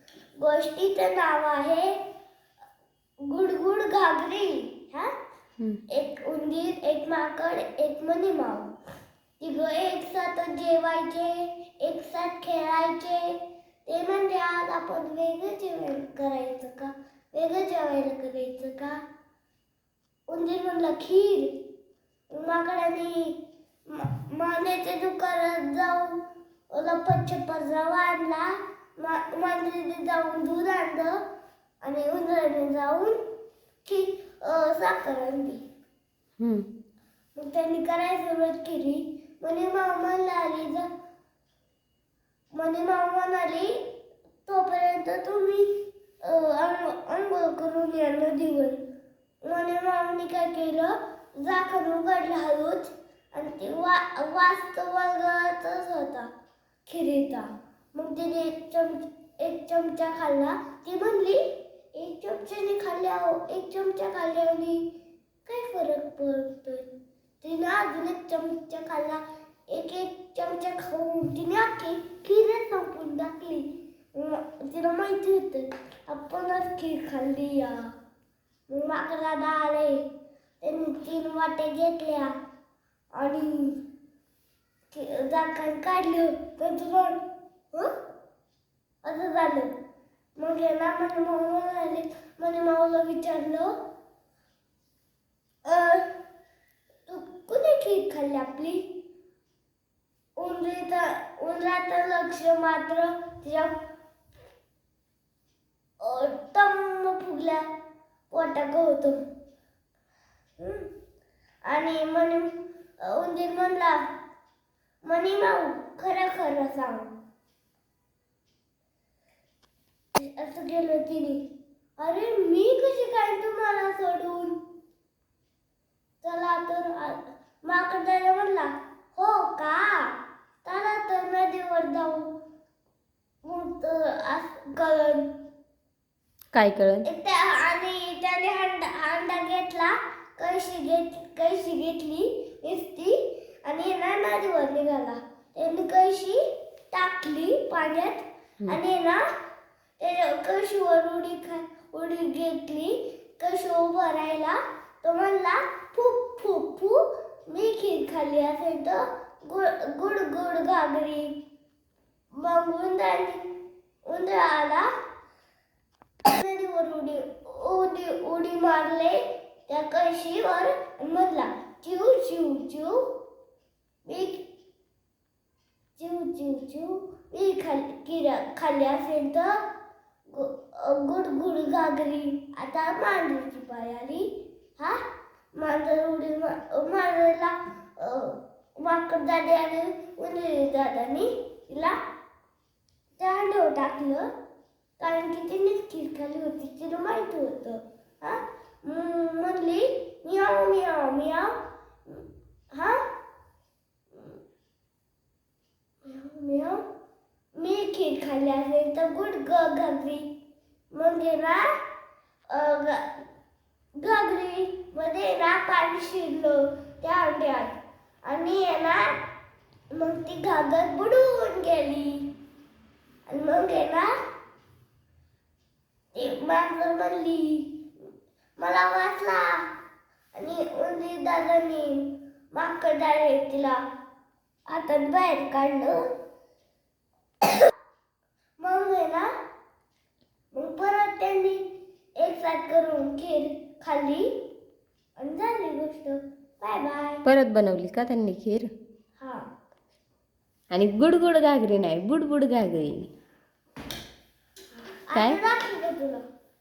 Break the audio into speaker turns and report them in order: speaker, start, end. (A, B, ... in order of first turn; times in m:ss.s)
0:00.4-0:02.0 A
0:03.3-0:05.1 A
0:05.9-0:08.7 A
0:09.4-0:19.0 A
0:20.3-0:21.6 A
0:22.3-0:23.4 A
0:23.9-0:31.2 A
0:31.8-0:33.2 A
0:33.8-0:35.6 A
0:36.4-0:36.7 B
0:37.4-0:40.9 A
0:42.6-0:43.8 A
0:44.5-0:48.8 A
0:49.4-0:56.3 A
0:56.9-1:04.9 A
1:05.4-1:06.9 A
1:07.4-1:17.9 A
1:18.7-1:20.0 A
1:20.6-1:22.4 A
1:23.2-1:23.8 A
1:24.9-1:27.2 A
1:29.0-1:29.7 A
1:30.4-1:33.7 A
1:35.6-1:36.1 A
1:37.1-1:38.9 A
1:40.4-1:43.8 A
1:46.0-1:47.6 A
1:48.3-1:49.2 A
1:50.6-1:50.9 A
1:51.7-1:54.0 A
1:55.1-1:57.1 A
2:00.2-2:01.5 A
2:02.0-2:04.6 A
2:06.2-2:12.3 A
2:13.4-2:15.4 A
2:16.5-2:17.0 B
2:17.0-2:26.4 A
2:26.9-2:29.2 A
2:30.0-2:41.4 A
2:42.4-2:43.5 A
2:44.1-2:44.9 A
2:46.3-2:53.0 A
2:54.1-2:54.4 A
2:56.0-2:59.6 A
3:00.3-3:05.0 A
3:05.6-3:12.0 A
3:13.2-3:14.3 A
3:15.0-3:23.0 A
3:24.1-3:24.4 A
3:26.0-3:26.8 A
3:27.6-3:30.3 A
3:30.9-3:31.7 A
3:32.5-3:33.1 A
3:34.0-3:39.2 A
3:39.9-3:42.3 A
3:43.3-3:44.1 A
3:46.2-3:47.9 A
3:48.6-3:49.6 A
3:50.4-3:53.8 A
3:54.7-3:56.0 A
3:58.6-3:59.3 A
4:00.5-4:01.6 A
4:02.2-4:04.3 A
4:05.2-4:07.2 A
4:07.2-4:08.7 B
4:09.2-4:09.4 A
4:10.7-4:13.1 B
4:15.1-4:16.2 A
4:15.1-4:15.4 B